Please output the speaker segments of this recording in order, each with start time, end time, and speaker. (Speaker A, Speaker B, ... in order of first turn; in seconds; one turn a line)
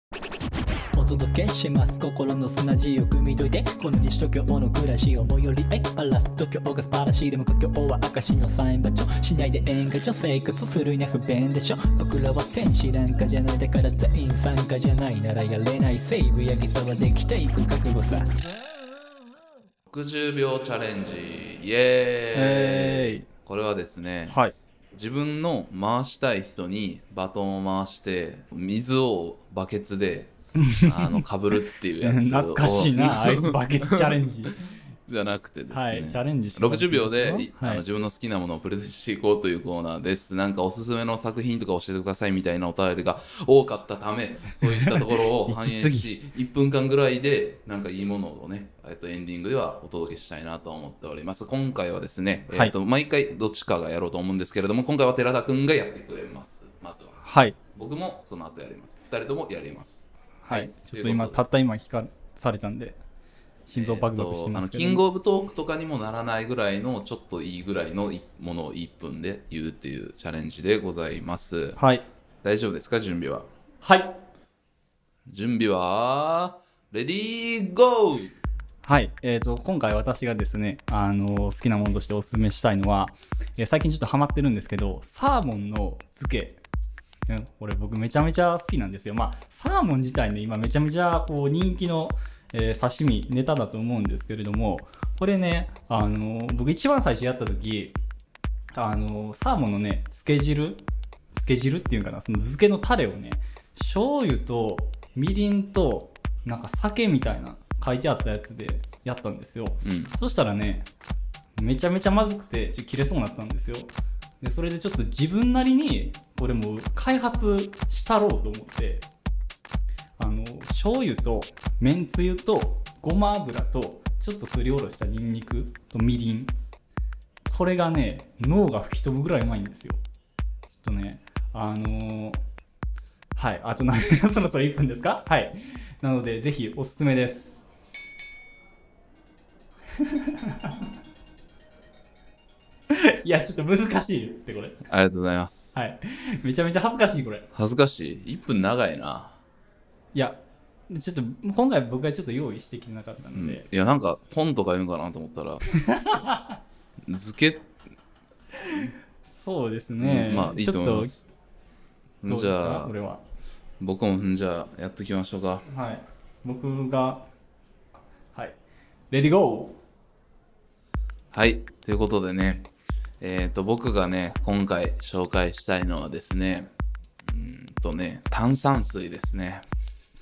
Speaker A: 1.0-6.3
Speaker B: 1.0-18.2
Speaker A: 6.8-8.0
Speaker A: 8.5-11.3
Speaker A: 14.1-14.8
Speaker A: 16.7-17.2
Speaker A: 17.8-18.2
Speaker C: 19.9-24.4
Speaker A: 22.3-23.2
Speaker A: 24.3-24.5
Speaker C: 24.9-57.2
Speaker A: 30.5-31.2
Speaker A: 32.0-34.6
Speaker A: 35.7-37.8
Speaker A: 44.7-46.1
Speaker A: 57.2-57.6
Speaker C: 57.7-61.4
Speaker A: 60.4-63.0
Speaker A: 63.7-65.0
Speaker C: 63.7-71.8
Speaker A: 71.8-72.0
Speaker C: 72.4-73.5
Speaker A: 73.8-74.2
Speaker C: 75.3-78.3
Speaker A: 78.8-86.6
Speaker A: 87.3-98.0
Speaker A: 98.7-100.8
Speaker A: 101.3-110.9
Speaker C: 109.8-110.1
Speaker A: 111.6-119.0
Speaker A: 120.2-126.5
Speaker A: 127.5-130.0
Speaker A: 130.7-132.4
Speaker A: 133.3-137.6
Speaker A: 140.0-140.8
Speaker A: 142.9-144.8
Speaker C: 144.8-145.7
Speaker A: 145.7-147.4
Speaker C: 147.5-149.4
Speaker A: 150.9-153.6
Speaker C: 153.3-155.7
Speaker A: 155.7-156.6
Speaker C: 157.1-157.7
Speaker A: 158.5-161.1
Speaker C: 160.0-161.2
Speaker C: 162.2-162.9
Speaker A: 162.3-163.2
Speaker C: 163.8-165.6
Speaker A: 165.7-167.3
Speaker A: 169.1-169.8
Speaker C: 171.3-172.7
Speaker C: 173.2-176.7
Speaker C: 177.2-179.6